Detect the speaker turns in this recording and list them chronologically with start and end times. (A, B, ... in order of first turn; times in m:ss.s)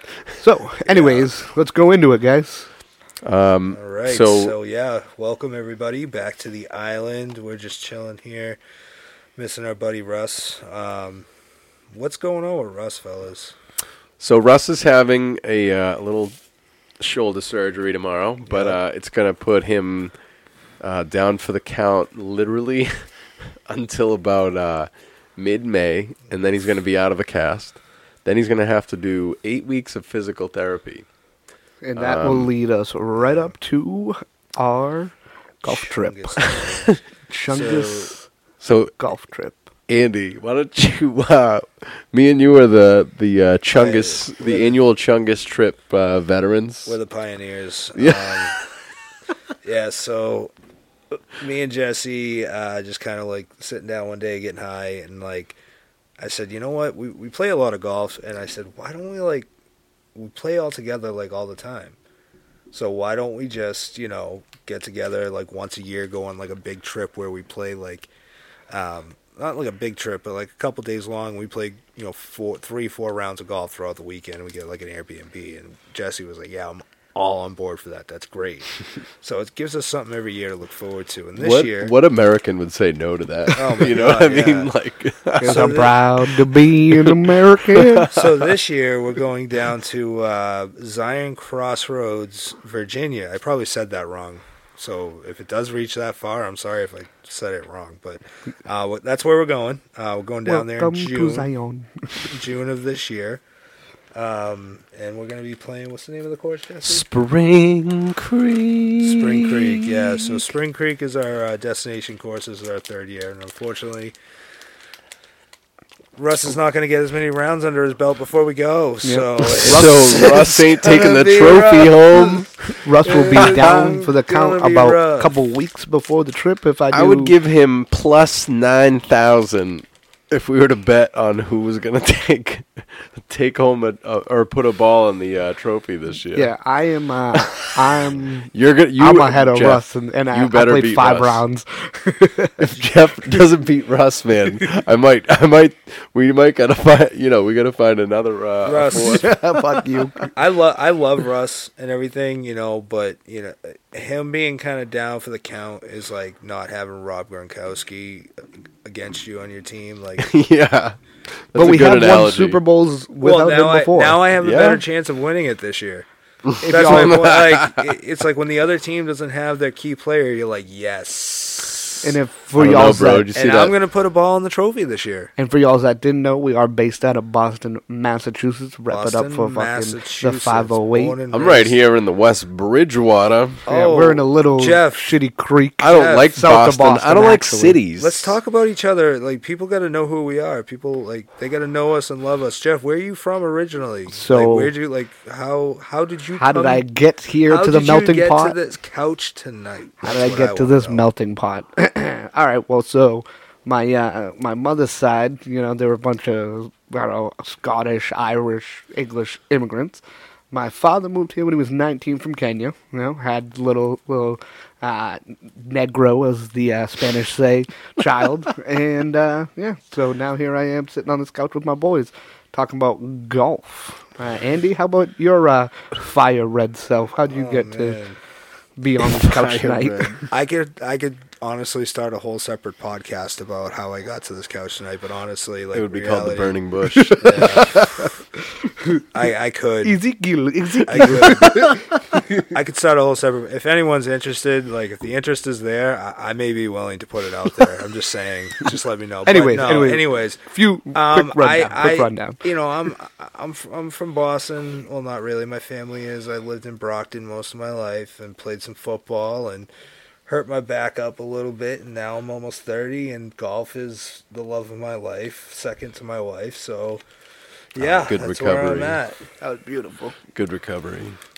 0:00.4-0:02.7 A
0:00.8-0:01.3 B
0:03.2-0:04.6 C
0:03.7-0:08.6 B
0:09.4-0:11.3 B
0:11.9-0:13.6 B
0:14.2-0:16.4 C
0:17.0-0:20.1 C
0:18.5-0:18.8 B
0:20.8-0:22.9 C
0:23.7-0:31.0 C
0:31.8-0:36.4 A
0:32.0-0:32.5 C
0:33.2-0:33.5 B
0:35.6-0:38.1 B
0:36.5-0:37.0 C
0:37.3-0:38.3 A
0:38.6-0:38.9 C
0:39.0-0:39.7 A
0:39.9-0:47.0 C
0:43.7-0:44.8 B
0:46.9-0:48.6 B
0:48.0-0:48.6 C
0:49.6-0:50.5 B
0:51.4-0:55.6 B
0:56.2-0:59.5 B
1:00.2-1:02.0 B
1:02.7-1:08.1 B
1:08.7-1:21.9 B
1:21.4-1:28.5 C
1:23.5-1:24.7 B
1:25.4-1:28.1 A
1:25.4-1:26.0 B
1:28.1-1:41.5 B
1:40.4-1:42.4 A
1:42.2-1:43.4 B
1:44.1-1:47.1 B
1:46.8-1:50.2 C
1:49.0-1:54.2 B
1:56.2-2:02.5 B
1:59.0-2:00.6 A
1:59.6-2:02.8 C
2:02.8-2:07.4 A
2:03.0-2:05.4 B
2:03.4-2:03.8 C
2:06.9-2:16.5 C
2:16.3-2:22.7 A
2:17.4-2:17.7 C
2:18.5-2:21.4 C
2:22.6-2:29.3 C
2:28.6-2:29.3 B
2:29.0-2:30.3 A
2:30.4-2:38.3 B
2:38.8-2:40.3 B
2:40.2-2:41.0 C
2:41.5-2:42.6 C
2:41.6-2:44.3 A
2:43.2-2:46.1 B
2:44.4-2:44.8 C
2:46.5-2:47.9 C
2:46.6-2:47.4 A
2:46.6-2:52.2 B
2:52.0-2:53.3 A
2:52.6-2:53.8 C
2:52.7-2:55.3 B
2:55.4-3:01.2 A
2:58.9-3:01.8 B
3:01.3-3:03.6 C
3:03.7-3:05.1 B
3:03.7-3:07.8 A
3:05.8-3:08.4 C
3:05.9-3:06.3 B
3:08.0-3:16.8 B
3:14.1-3:14.7 A
3:16.3-3:18.6 A
3:17.5-3:21.1 B
3:20.0-3:48.0 A
3:47.3-3:48.2 B
3:48.8-3:50.3 A
3:49.0-3:50.2 C
3:50.3-3:56.6 B
3:55.7-3:57.7 C
3:57.0-3:58.1 A
3:57.2-3:57.9 B
3:59.1-4:00.0 B
3:59.8-4:02.5 A
4:00.8-4:01.8 B
4:02.4-4:19.7 B
4:09.3-4:12.5 A
4:20.3-4:27.0 B
4:27.7-4:29.2 B
4:27.8-4:29.0 C
4:29.4-4:30.2 A
4:30.4-4:31.2 C